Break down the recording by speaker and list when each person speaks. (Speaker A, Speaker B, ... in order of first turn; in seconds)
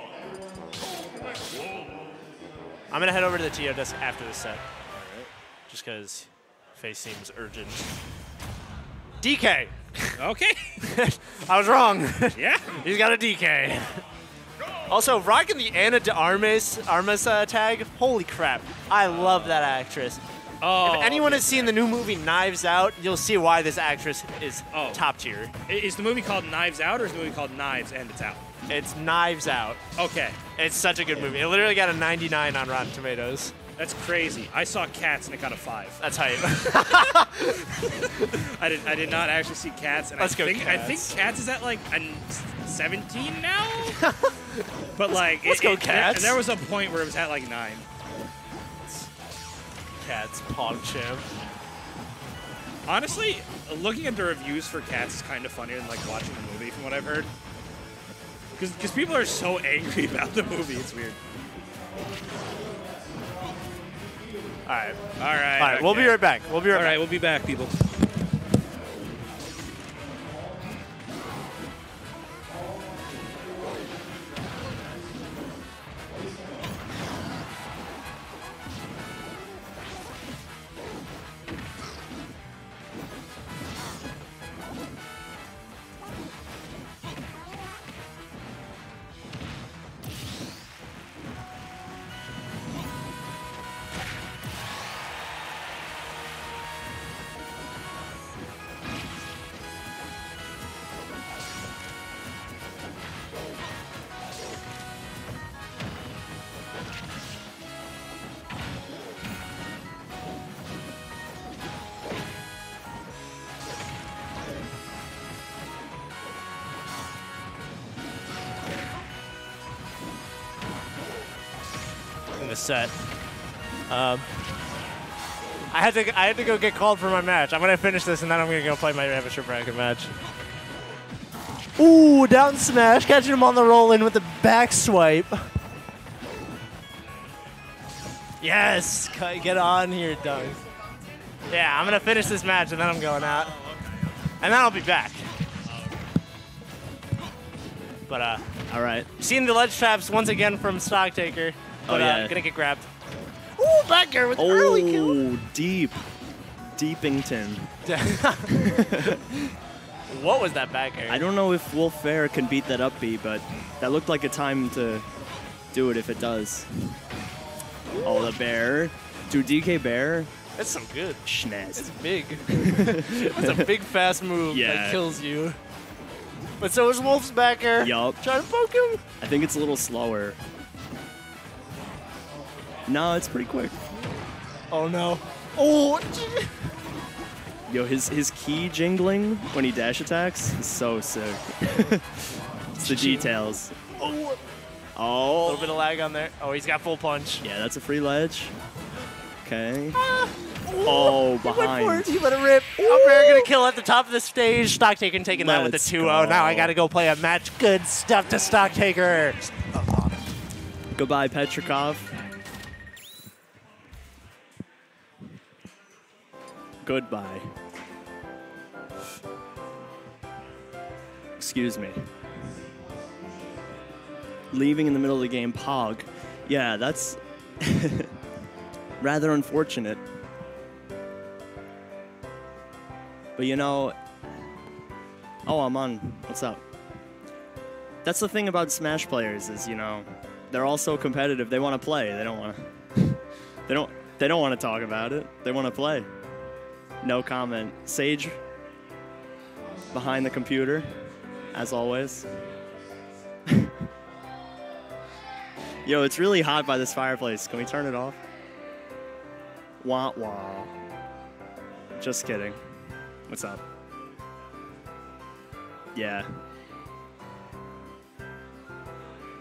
Speaker A: 2.9-4.7, 5.7-7.9, 9.2-10.2, 10.8-14.0, 14.9-20.2, 20.8-25.5, 28.7-29.8, 30.6-33.5, 36.0-38.4, 40.2-41.2, 44.0-44.6, 45.3-46.4, 50.0-51.3, 64.7-65.0, 65.6-67.0, 122.4-123.0, 123.9-124.2, 125.7-130.1, 131.8-135.5, 138.4-140.6, 141.5-143.6, 144.4-145.3, 148.1-148.4, 149.2-152.9, 153.6-155.2, 157.8-159.0, 160.1-161.2, 167.9-168.3, 170.6-171.2, 171.7-175.6, 176.6-179.0, 184.7-186.5, 192.8-193.3, 194.0-194.4, 195.4-197.4, 199.9-210.1
Speaker B: 5.0-5.3, 10.2-10.8, 12.3-12.8, 19.0-19.6, 20.6-21.8, 24.7-25.0, 25.7-28.4, 29.9-30.4, 33.8-36.0, 38.4-44.0, 44.9-47.8, 52.9-57.3, 58.5-61.2, 65.2-67.8
Speaker C: 148.7-149.1, 151.9-152.4, 154.3-156.0, 156.8-157.7, 158.5-159.4, 161.1-165.1, 165.7-166.9, 168.0-170.3, 171.2-171.9, 172.5-173.7, 174.5-175.1, 177.8-178.2, 179.2-180.4, 182.9-183.8, 187.7-193.8, 194.9-195.7, 197.4-198.5, 199.4-200.0, 200.8-202.1, 202.8-203.5, 205.3-206.8, 210.9-212.1, 216.8-217.5, 221.4-222.0, 224.5-228.1, 229.0-230.0, 233.4-233.9, 235.4-236.6, 238.0-246.1, 247.0-248.4, 249.9-251.0, 251.5-252.4, 253.5-253.8, 255.8-258.2, 259.8-260.7, 262.0-262.6, 263.3-263.6, 265.9-266.3